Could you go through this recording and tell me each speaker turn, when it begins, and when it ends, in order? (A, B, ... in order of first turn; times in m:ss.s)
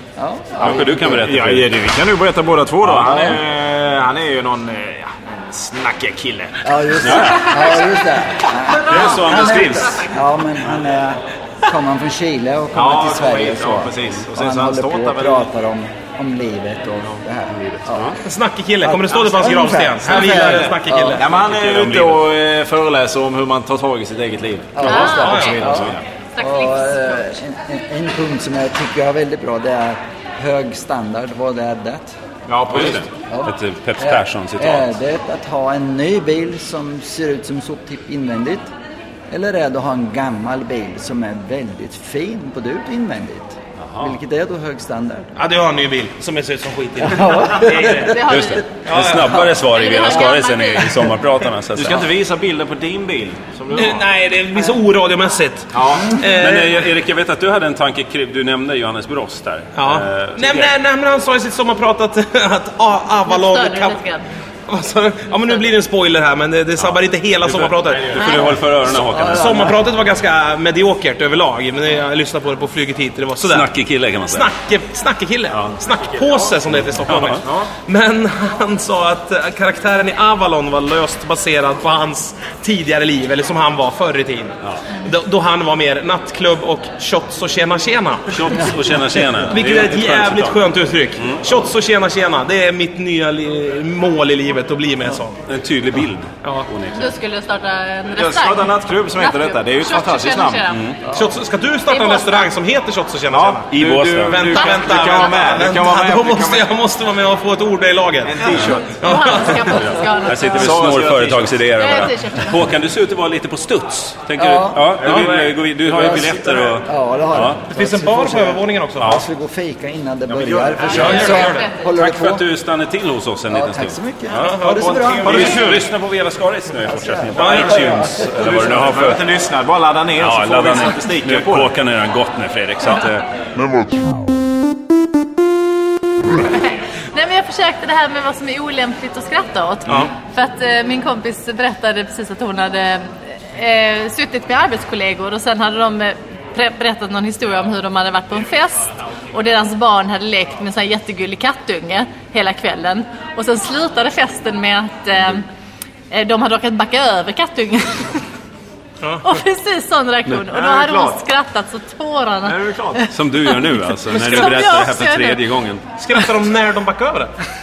0:00.2-0:01.4 A
0:00.6-0:01.7 B
0:01.2-0:07.3 C
0:02.8-0:03.3 B
0:06.6-0:18.1 A
0:07.0-0:07.6 B
0:08.8-0:10.1 B
0:08.9-0:09.3 D
0:12.7-0:15.5 C
0:17.5-0:18.2 B
0:18.2-0:21.2 E
0:18.8-0:21.2 A
0:20.1-0:26.0 C
0:21.4-0:22.2 B
0:24.7-0:32.1 A
0:24.8-0:25.6 D
0:25.1-0:25.7 E
0:26.4-0:27.4 D
0:32.5-0:33.1 C
0:32.7-0:34.9 B
0:33.3-0:38.7 A
0:39.3-0:45.3 A
0:43.8-0:44.1 B
0:45.4-0:48.1 E
0:47.0-0:48.4 A
0:48.0-0:48.7 D
0:48.3-0:52.1 B
0:48.8-0:49.5 E
0:49.7-0:51.1 D
0:51.7-0:54.0 C
0:53.7-0:56.8 E
0:55.7-0:56.1 C
0:56.4-1:00.7 B
0:59.8-1:04.0 E
1:03.3-1:04.2 D
1:04.7-1:08.3 E
1:06.8-1:09.7 B
1:07.9-1:08.4 C
1:08.2-1:08.5 D
1:08.9-1:09.8 A
1:09.3-1:13.7 E
1:13.4-1:14.5 B
1:14.3-1:35.4 E
1:16.1-1:16.5 C
1:17.1-1:17.4 B
1:17.3-1:17.7 C
1:28.3-1:30.6 B
1:35.4-1:37.1 B
1:36.9-1:40.9 D
1:38.1-1:40.7 C
1:40.7-1:41.0 B
1:41.1-1:43.7 E
1:41.9-1:42.5 D
1:43.3-1:46.7 C
1:43.7-1:44.5 B
1:44.3-1:49.8 E
1:44.5-1:45.5 D
1:48.2-1:49.3 C
1:48.7-1:50.7 D
1:49.7-1:57.6 B
1:50.4-1:51.7 C
1:51.8-1:52.6 D
1:54.4-1:55.0 A
1:54.9-1:56.5 C
1:55.9-2:02.5 A
1:57.7-1:59.1 E
2:00.3-2:01.3 C
2:00.8-2:01.8 D
2:00.9-2:01.7 E
2:01.8-2:04.6 B
2:03.5-2:05.6 A
2:04.4-2:05.6 E
2:04.8-2:05.9 C
2:05.2-2:09.2 B
2:06.9-2:08.4 A
2:07.4-2:08.0 E
2:08.3-2:11.7 C
2:10.2-2:13.3 B
2:16.4-2:35.4 D
2:36.1-2:38.2 D
2:39.0-2:39.3 E
2:39.2-2:45.4 D
2:40.7-2:41.1 E
2:40.8-2:41.1 C
2:42.4-2:43.0 C
2:43.1-2:45.8 B
2:44.1-2:44.6 E
2:46.0-2:47.3 E